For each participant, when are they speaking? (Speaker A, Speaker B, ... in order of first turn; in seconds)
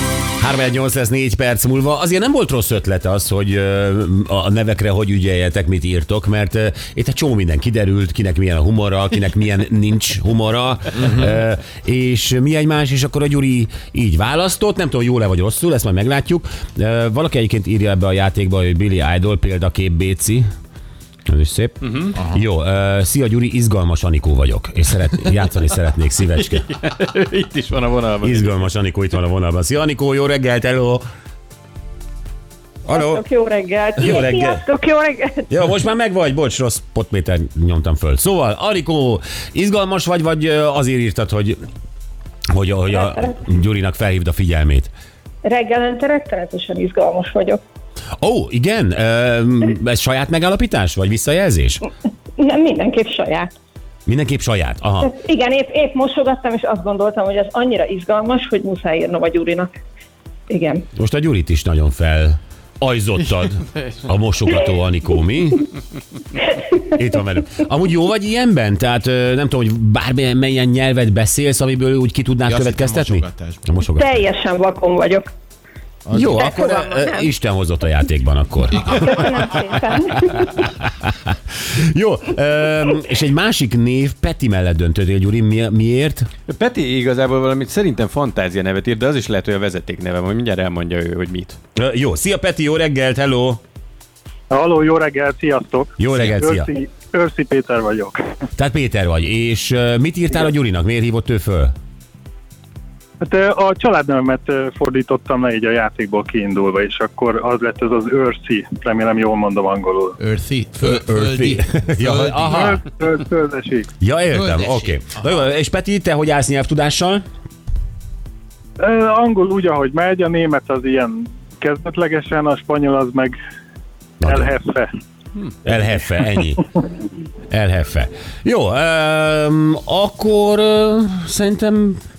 Speaker A: 0.4-20.4, 21.3-26.7, 28.2-31.1, 32.9-33.2, 34.0-34.6, 35.5-41.6, 42.5-44.9, 48.2-51.8, 54.1-55.1, 61.0-65.7, 66.8-74.3, 76.1-79.2, 80.6-86.3, 91.8-93.6, 96.0-96.7, 98.6-101.7, 110.8-112.8, 114.0-117.2, 124.2-124.5, 125.6-126.6, 127.5-132.0
Speaker B: 21.8-22.2, 26.4-28.5, 86.5-91.6
Speaker C: 22.2-22.4, 72.5-73.7, 76.1-76.4, 78.8-79.1, 110.2-112.8, 114.3-115.2
Speaker D: 32.9-35.5, 42.9-43.5, 45.4-47.6, 52.4-53.5, 55.0-59.7, 60.5-60.9, 74.0-75.3, 76.1-77.3, 78.8-80.5
Speaker E: 94.5-98.4, 103.2-110.2, 112.5-113.9, 118.8-123.4, 124.2-124.9